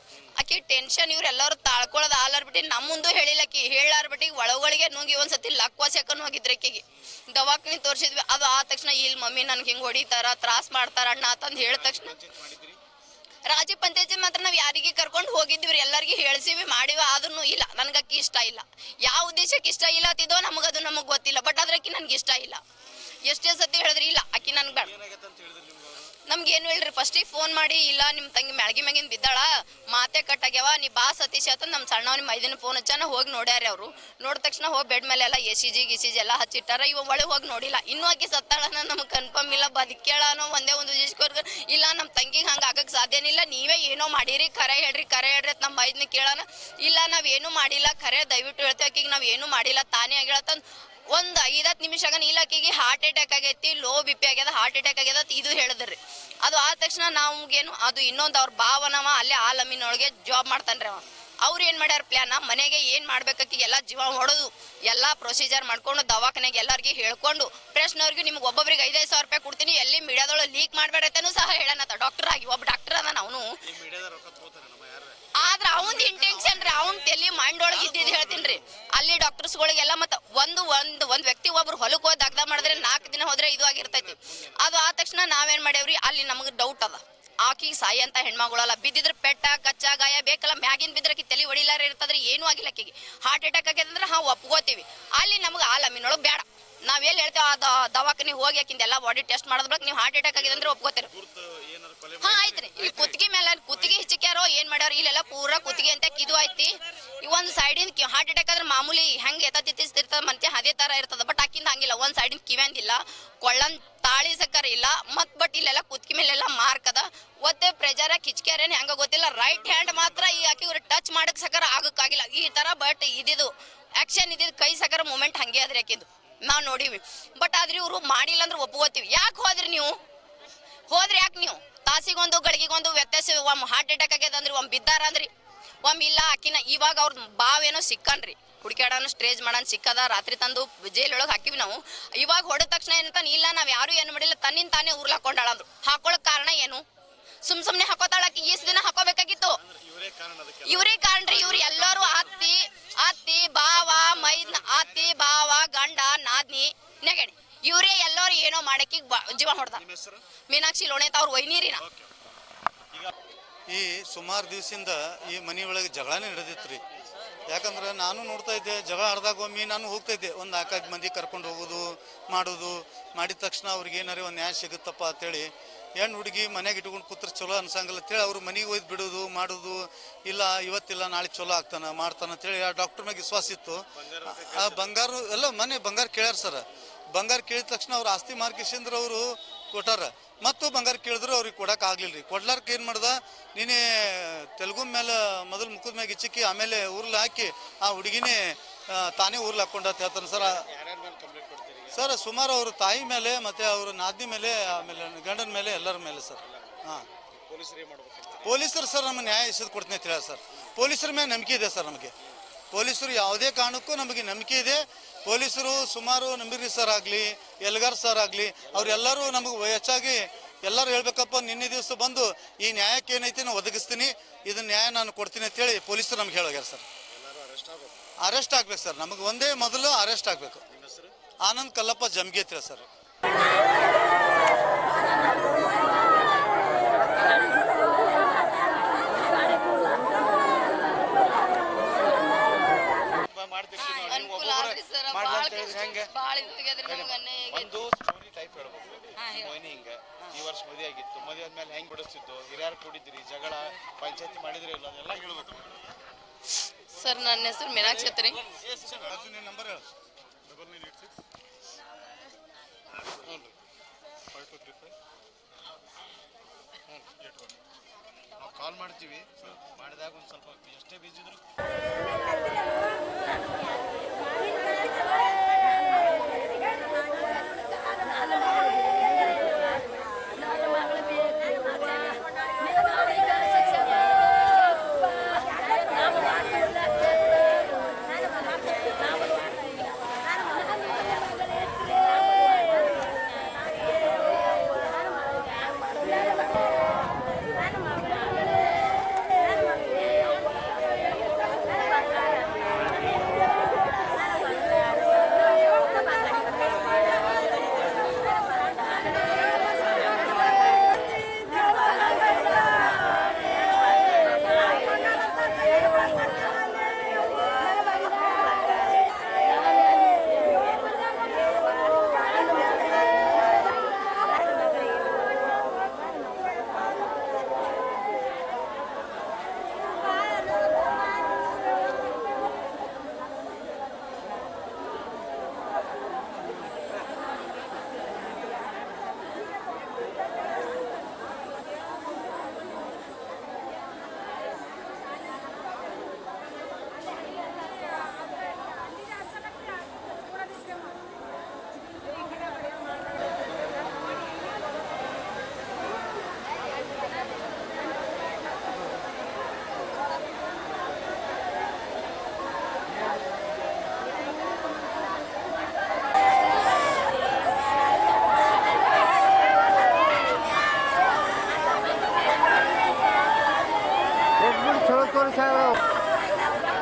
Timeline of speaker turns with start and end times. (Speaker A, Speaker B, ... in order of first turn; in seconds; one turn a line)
Speaker A: 0.4-12.2
Speaker B: 11.6-12.8
Speaker A: 13.5-22.6
Speaker A: 23.3-24.9
Speaker B: 24.7-26.1
Speaker A: 26.3-50.6
Speaker A: 51.1-73.5
Speaker B: 73.7-75.3
Speaker A: 75.4-101.1
Speaker B: 77.8-78.6
Speaker B: 82.5-83.2
Speaker B: 83.8-84.5
Speaker B: 100.3-103.2
Speaker A: 102.2-129.9
Speaker B: 119.4-120.4
Speaker A: 130.9-135.3
Speaker A: 135.8-146.8
Speaker A: 147.4-149.6
Speaker B: 149.6-152.4
Speaker A: 150.6-159.8
Speaker B: 153.8-155.3
Speaker B: 159.8-160.2
Speaker A: 160.5-161.8
Speaker B: 161.8-162.1
Speaker C: 163.7-166.8
Speaker C: 167.5-200.6
Speaker B: 183.9-185.0
Speaker B: 200.3-202.0
Speaker C: 201.9-207.1
Speaker B: 206.4-208.6
Speaker C: 208.4-212.1
Speaker C: 212.7-226.8
Speaker B: 218.7-219.2
Speaker B: 227.1-228.1
Speaker C: 228.2-230.6
Speaker B: 230.7-231.1
Speaker C: 231.4-232.9
Speaker B: 243.1-246.1
Speaker A: 243.8-247.7
Speaker B: 246.8-255.7
Speaker A: 256.9-258.4
Speaker B: 258.0-259.2
Speaker C: 259.0-259.9
Speaker B: 260.4-261.1
Speaker B: 263.0-263.5
Speaker B: 264.3-264.9
Speaker B: 268.4-271.4